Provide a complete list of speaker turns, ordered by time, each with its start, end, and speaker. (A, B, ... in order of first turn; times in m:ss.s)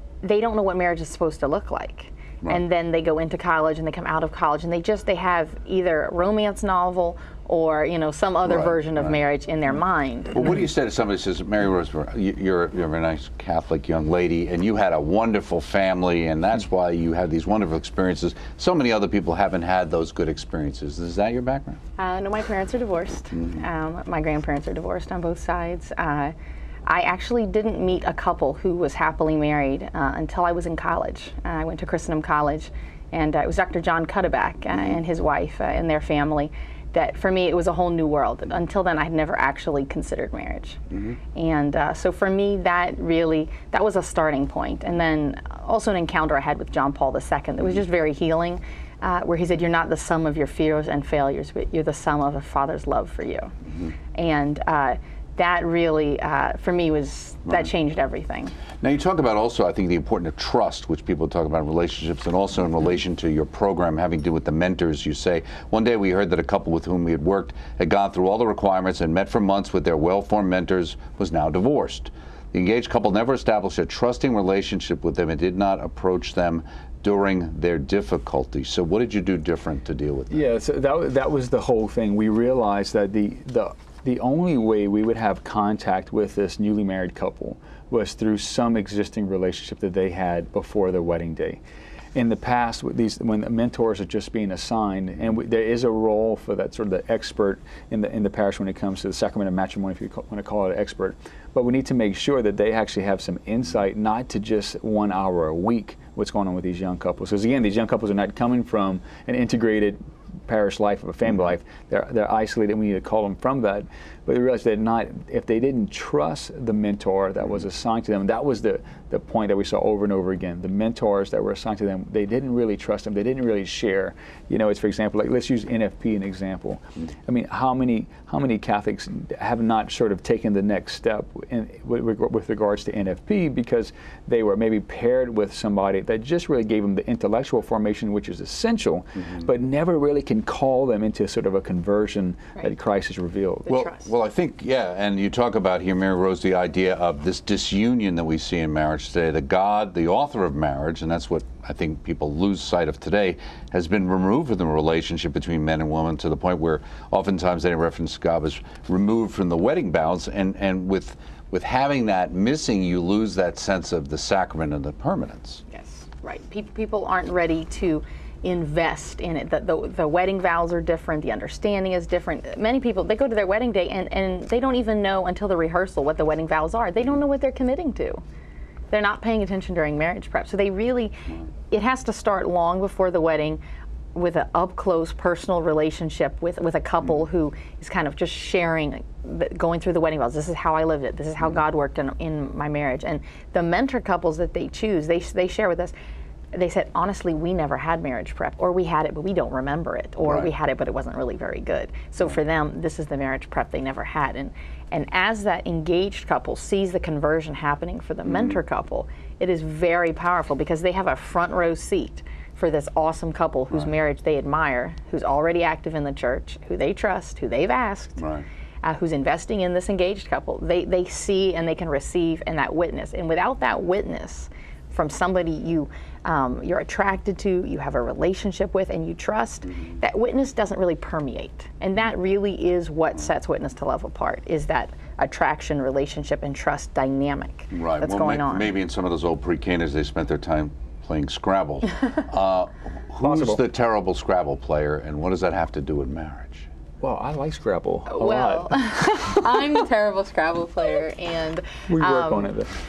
0:00.2-0:10.6 A
0:08.4-0:09.2 B
0:10.3-0:21.8 B
0:22.0-0:26.3 A
0:23.3-0:23.6 B
0:26.8-0:40.8 A
0:41.3-0:53.5 A
0:54.1-0:58.5 A
0:58.8-1:20.4 B
1:20.3-1:31.6 C
1:32.1-2:23.7 C
2:23.7-2:45.6 B
2:23.7-2:23.9 A
2:45.7-2:58.2 A
2:58.9-3:03.6 A
3:04.1-3:15.9 A
3:16.5-3:38.2 A
3:20.2-3:20.5 B
3:28.2-3:28.6 B
3:38.2-3:38.4 B
3:38.8-3:58.7 A
3:57.7-4:06.7 B
4:03.2-4:03.6 C
4:07.0-4:09.3 C
4:08.1-4:12.5 A
4:11.9-4:12.7 C